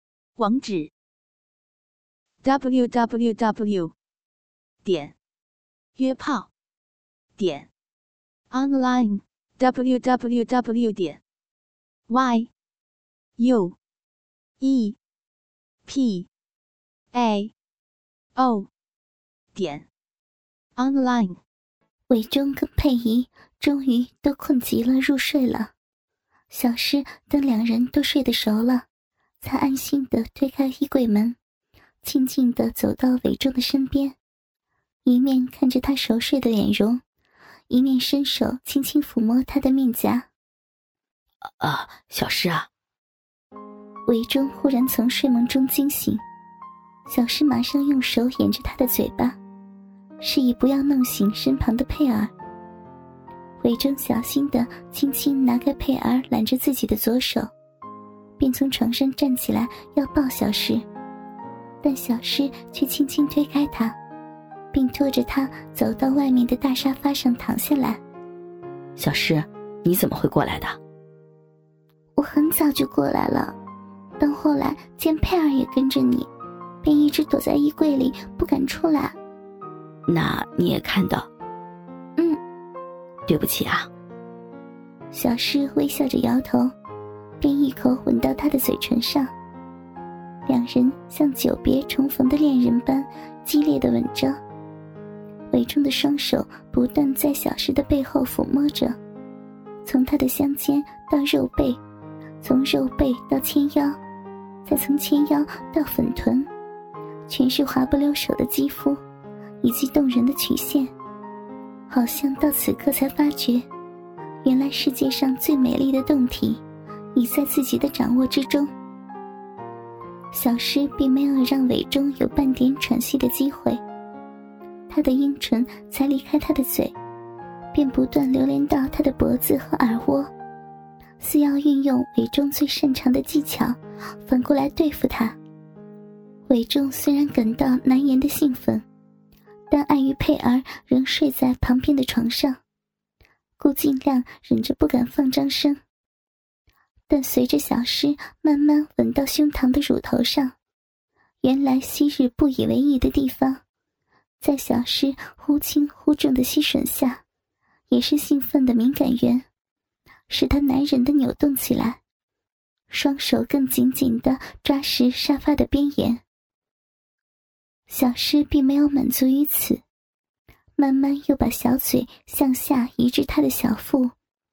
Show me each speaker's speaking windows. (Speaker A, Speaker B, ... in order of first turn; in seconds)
Speaker A: 0.4-0.9, 2.4-3.9, 4.8-5.2, 6.0-6.5, 7.4-7.7, 8.5-11.2, 12.1-12.5, 13.4-13.8, 14.6-15.0, 15.9-16.3, 17.1-17.5, 18.4-18.7, 19.6-19.9, 20.8-21.4
Speaker B: 22.1-25.7, 26.5-28.9, 29.4-31.4, 32.0-34.2, 35.1-37.0, 37.7-40.3, 44.1-46.2, 47.1-49.4, 50.2-52.3, 53.6-57.5, 58.4-60.8, 61.8-64.0, 64.7-68.0, 72.2-73.5, 74.2-76.3, 76.8-79.2, 85.1-86.7, 87.4-89.3, 90.5-94.4, 95.5-98.9, 99.8-101.8, 102.4-104.0, 104.7-106.5, 107.3-109.0, 109.6-110.9, 111.9-113.6, 114.4-116.6, 117.2-118.7, 120.3-123.8, 124.9-126.9, 127.7-130.3, 131.2-135.4, 136.5-138.8, 139.7-142.6, 143.6-145.8, 147.1-150.5, 151.4-153.6, 154.4-157.2, 157.9-159.5, 160.3-162.0, 162.9-166.2, 167.9-169.8, 170.8-174.1
Speaker C: 41.6-42.7, 69.0-70.8, 80.1-81.3, 83.3-83.9